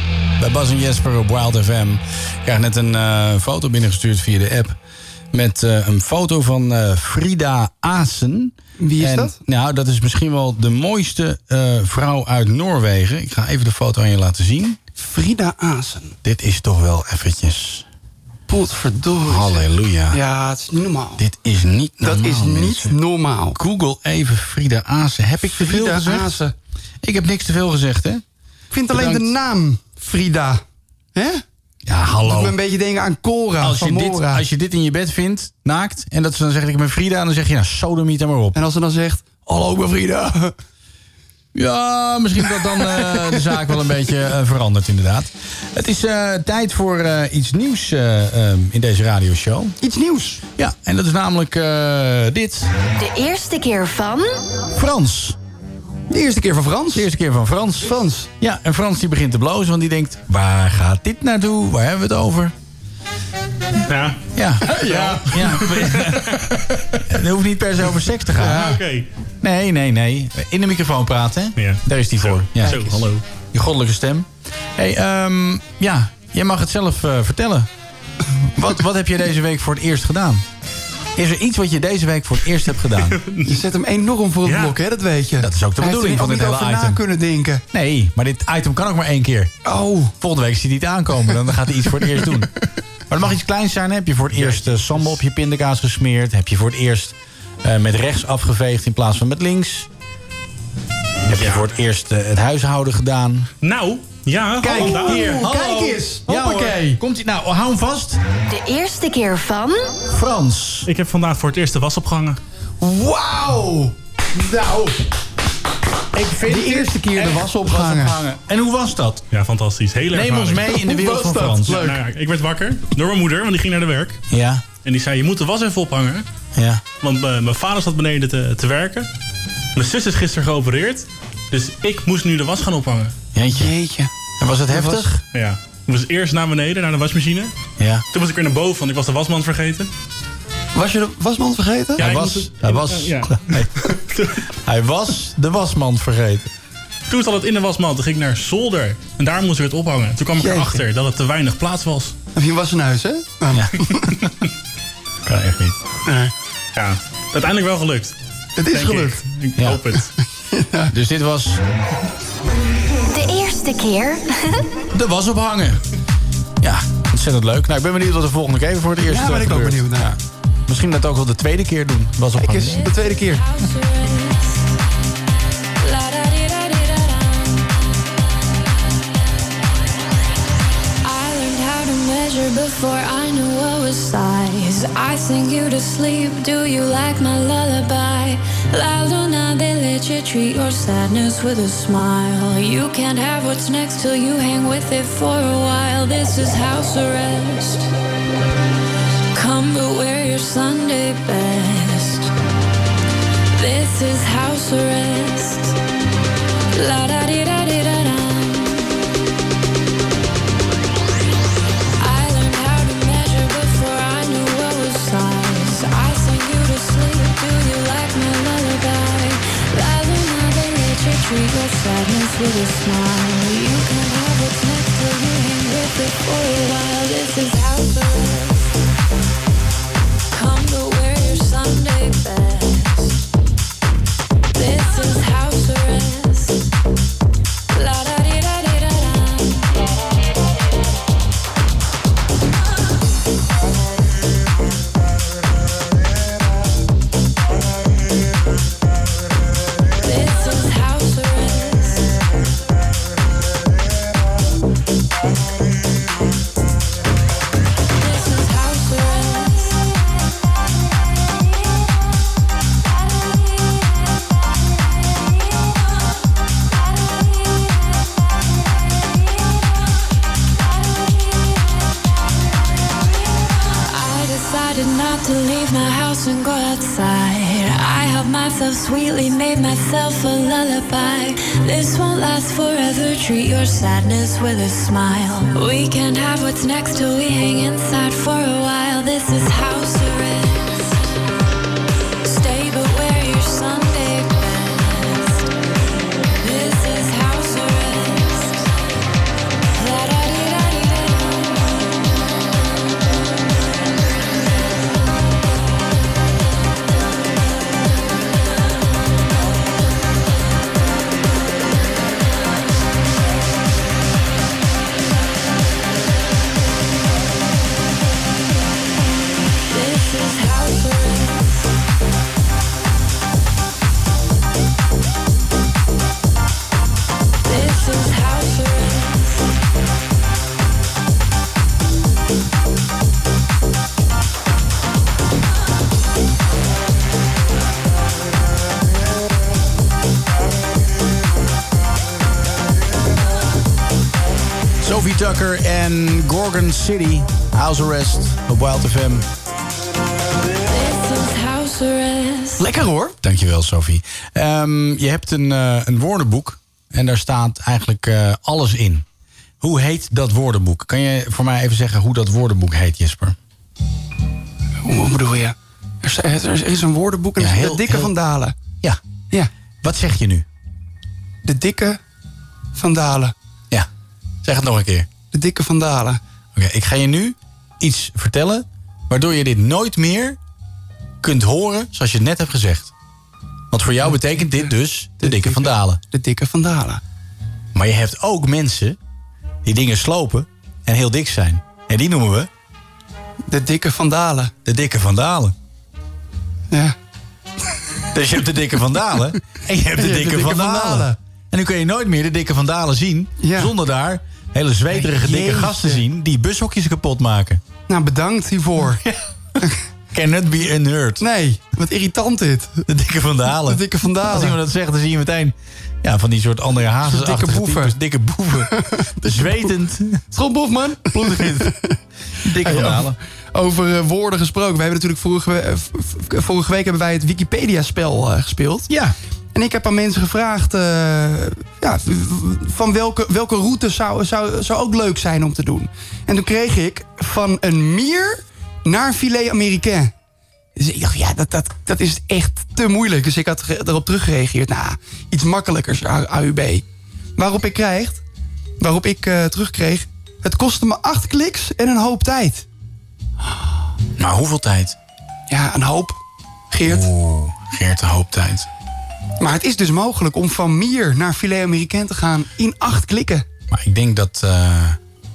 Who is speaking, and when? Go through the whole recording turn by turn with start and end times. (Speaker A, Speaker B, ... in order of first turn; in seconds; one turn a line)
Speaker A: 0.4-4.8
Speaker A: 5.3-14.8
Speaker B: 8.8-9.4
Speaker B: 14.9-16.1
Speaker A: 16.2-17.9
Speaker B: 18.5-21.2
Speaker A: 19.3-20.2
Speaker A: 21.2-23.0
Speaker B: 22.0-23.6
Speaker A: 23.5-26.4
Speaker B: 25.5-26.5
Speaker A: 27.0-28.2
Speaker B: 28.7-30.6
Speaker A: 28.9-29.3
Speaker B: 31.1-31.4
Speaker A: 31.8-32.5
Speaker B: 32.2-34.4
Speaker A: 33.6-38.6
Speaker B: 38.5-40.5
Speaker A: 41.5-49.7
Speaker B: 42.6-43.6
Speaker B: 49.8-50.4
Speaker A: 50.6-52.7
Speaker C: 53.0-54.4
Speaker A: 54.7-55.4
Speaker B: 56.1-57.1
Speaker A: 56.9-62.5
Speaker B: 57.8-58.3
Speaker D: 63.9-64.2
Speaker A: 64.3-66.4
Speaker B: 64.6-65.4
Speaker D: 64.8-67.0
Speaker A: 67.1-68.7
Speaker B: 68.4-68.8
Speaker D: 68.5-69.1
Speaker A: 69.4-77.7
Speaker D: 71.6-73.2
Speaker A: 78.5-80.4
Speaker A: 81.2-83.2
Speaker D: 83.0-83.6
Speaker B: 83.4-87.6
Speaker D: 84.4-84.8
Speaker A: 85.4-87.0
Speaker A: 87.7-89.5
Speaker B: 89.6-90.1
Speaker A: 90.2-92.5
Speaker A: 93.1-99.9
Speaker D: 94.3-95.2
Speaker A: 101.3-103.5
Speaker D: 101.3-101.7
Speaker D: 103.6-105.4
Speaker B: 104.6-107.0
Speaker A: 104.6-108.2
Speaker C: 108.5-110.0
Speaker A: 110.1-110.9
Speaker D: 110.8-112.4
Speaker B: 112.8-114.9
Speaker A: 116.1-119.2
Speaker B: 116.4-118.2
Speaker D: 119.3-120.8
Speaker A: 120.1-121.9
Speaker B: 120.7-122.0
Speaker D: 121.6-124.2
Speaker A: 124.3-124.6
Speaker D: 124.8-126.2
Speaker A: 126.5-126.8
Speaker D: 127.0-129.1
Speaker D: 129.7-133.1
Speaker A: 133.3-133.7
Speaker B: 133.6-134.1
Speaker A: 134.4-135.2
Speaker B: 134.7-135.0
Speaker D: 135.3-137.5
Speaker A: 137.8-138.0
Speaker D: 138.1-139.9
Speaker B: 140.7-142.0
Speaker A: 142.0-143.9
Speaker D: 142.0-144.4
Speaker A: 144.6-146.5
Speaker D: 147.1-152.1
Speaker B: 150.4-150.8
Speaker B: 152.3-154.2
Speaker A: 153.5-154.3
Speaker A: 155.2-155.8
Speaker B: 156.1-156.3
Speaker D: 156.8-158.2
Speaker B: 158.6-159.2
Speaker D: 158.7-160.1
Speaker A: 159.6-159.8
Speaker B: 160.1-160.9
Speaker A: 160.9-161.6
Speaker C: 163.1-164.8
Speaker A: 164.9-165.8
Speaker A: 166.6-172.8
Speaker B: 169.1-170.1
Speaker B: 172.4-173.4
Speaker E: 172.6-174.7
Speaker E: 175.8-178.0
Speaker E: 181.0-197.9
Speaker E: 199.3-202.3
Speaker E: 203.5-205.7
Speaker E: 206.7-208.9
Speaker E: 212.0-228.7
Speaker E: 230.3-233.2
Speaker E: 234.5-236.6
Speaker E: 237.7-239.9
Speaker E: 250.0-252.1
Speaker E: 257.9-259.8
Speaker E: 273.9-291.1
Speaker E: 292.2-295.5
Speaker E: 296.4-298.7
Speaker E: 299.7-301.8
Speaker E: 319.7-321.7
Speaker E: 327.4-329.5
Speaker A: 344.8-349.3
Speaker E: 350.7-352.7
Speaker B: 352.6-353.1
Speaker A: 353.2-359.0
Speaker A: 359.6-363.4
Speaker B: 364.8-368.5
Speaker A: 367.4-368.1
Speaker A: 369.8-370.4
Speaker B: 371.4-372.0
Speaker B: 372.7-373.3
Speaker A: 374.4-375.1
Speaker B: 375.3-376.2
Speaker A: 376.5-380.4
Speaker A: 381.2-382.9
Speaker A: 383.7-386.0
Speaker B: 385.2-387.0
Speaker A: 387.7-389.0
Speaker A: 389.6-392.5
Speaker B: 393.5-394.5
Speaker A: 394.6-395.5
Speaker A: 398.1-407.6
Speaker B: 400.0-401.2
Speaker B: 403.4-403.7
Speaker B: 404.9-406.0
Speaker B: 407.9-409.0
Speaker A: 408.9-409.2
Speaker A: 410.1-411.2
Speaker B: 411.2-412.8
Speaker A: 412.9-418.7
Speaker B: 413.6-414.6
Speaker B: 417.0-417.9
Speaker B: 418.8-419.7
Speaker A: 419.2-420.2
Speaker B: 420.3-421.9
Speaker A: 421.1-421.7
Speaker A: 422.4-423.2
Speaker B: 422.6-428.9
Speaker A: 428.9-429.1
Speaker B: 429.5-440.1
Speaker B: 440.8-446.8
Speaker B: 447.4-448.2
Speaker B: 448.8-452.6
Speaker A: 454.2-454.9
Speaker B: 455.5-456.2
Speaker B: 456.7-457.1
Speaker A: 456.8-458.7
Speaker B: 459.4-463.4
Speaker A: 463.7-465.0